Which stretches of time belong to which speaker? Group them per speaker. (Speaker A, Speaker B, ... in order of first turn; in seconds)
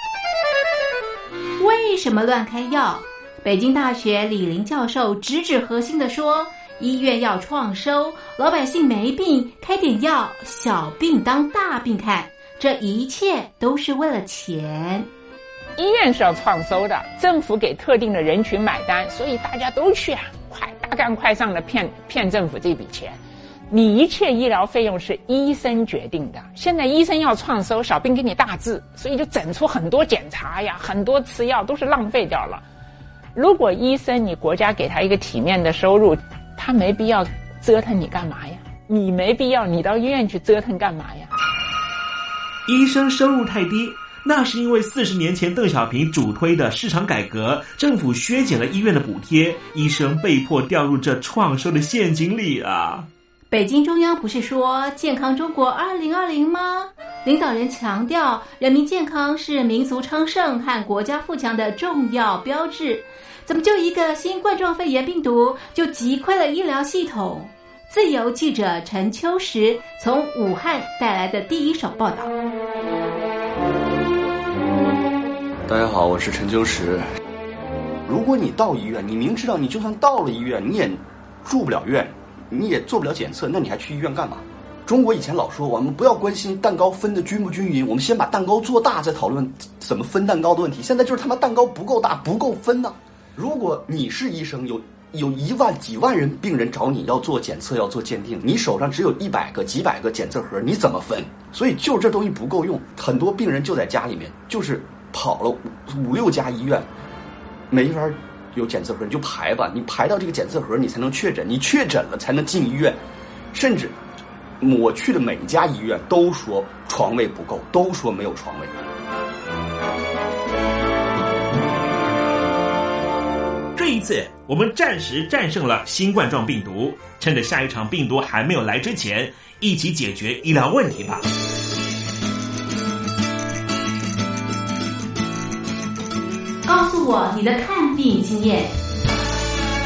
Speaker A: 1.6-15.1, 53.5-72.3, 136.7-138.7
Speaker B: 15.8-32.6, 33.4-41.3
Speaker C: 42.7-53.1, 123.8-131.2
Speaker D: 75.7-77.0, 78.1-106.9, 107.7-113.0, 113.5-114.0, 114.6-118.8